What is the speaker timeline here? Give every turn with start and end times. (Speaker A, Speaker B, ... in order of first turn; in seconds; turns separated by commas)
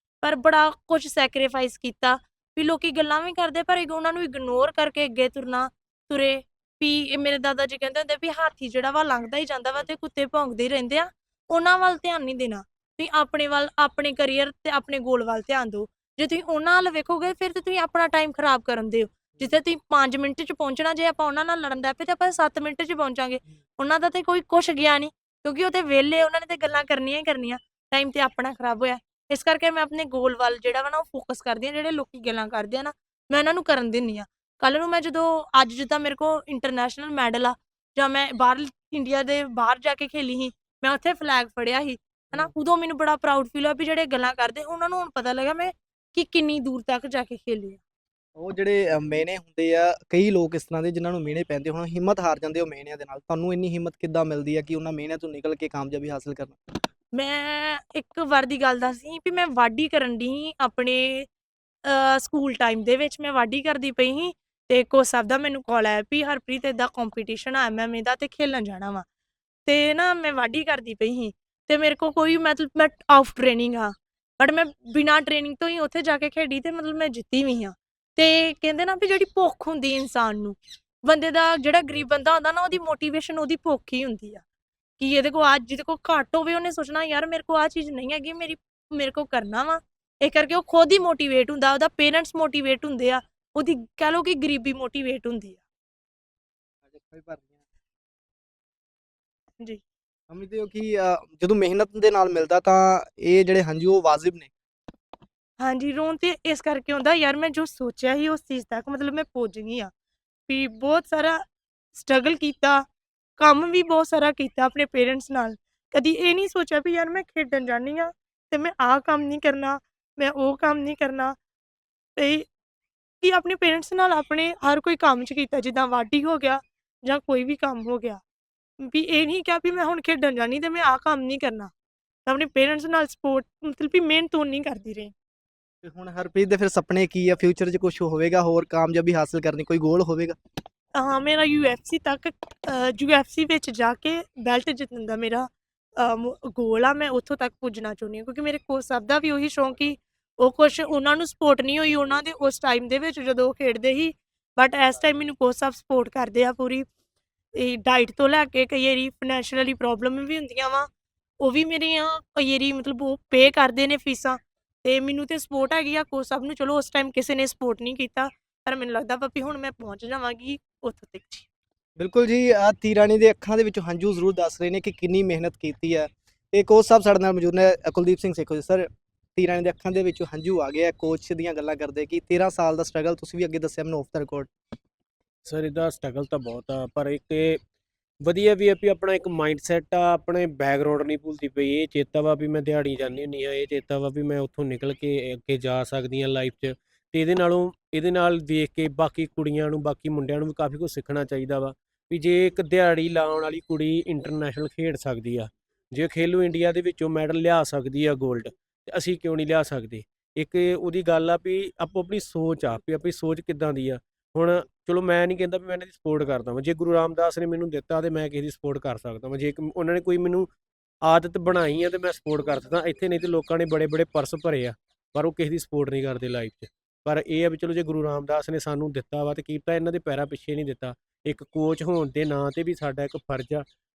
Speaker A: 0.2-47.8, Speaker B: 48.4-56.6, Speaker A: 57.1-61.3, Speaker A: 61.9-69.0, Speaker A: 69.7-84.4, Speaker A: 85.0-95.6, Speaker B: 100.3-104.5, Speaker A: 105.6-109.9, Speaker A: 110.5-111.4, Speaker A: 111.9-112.8, Speaker A: 113.4-121.4, Speaker A: 122.2-122.5, Speaker A: 123.2-128.2, Speaker A: 128.8-131.7, Speaker A: 132.3-135.1, Speaker B: 135.8-140.4, Speaker A: 140.9-156.9, Speaker A: 157.6-160.9, Speaker A: 161.4-171.5, Speaker B: 172.0-184.5, Speaker C: 185.4-187.6, Speaker C: 188.2-220.5, Speaker C: 221.0-233.7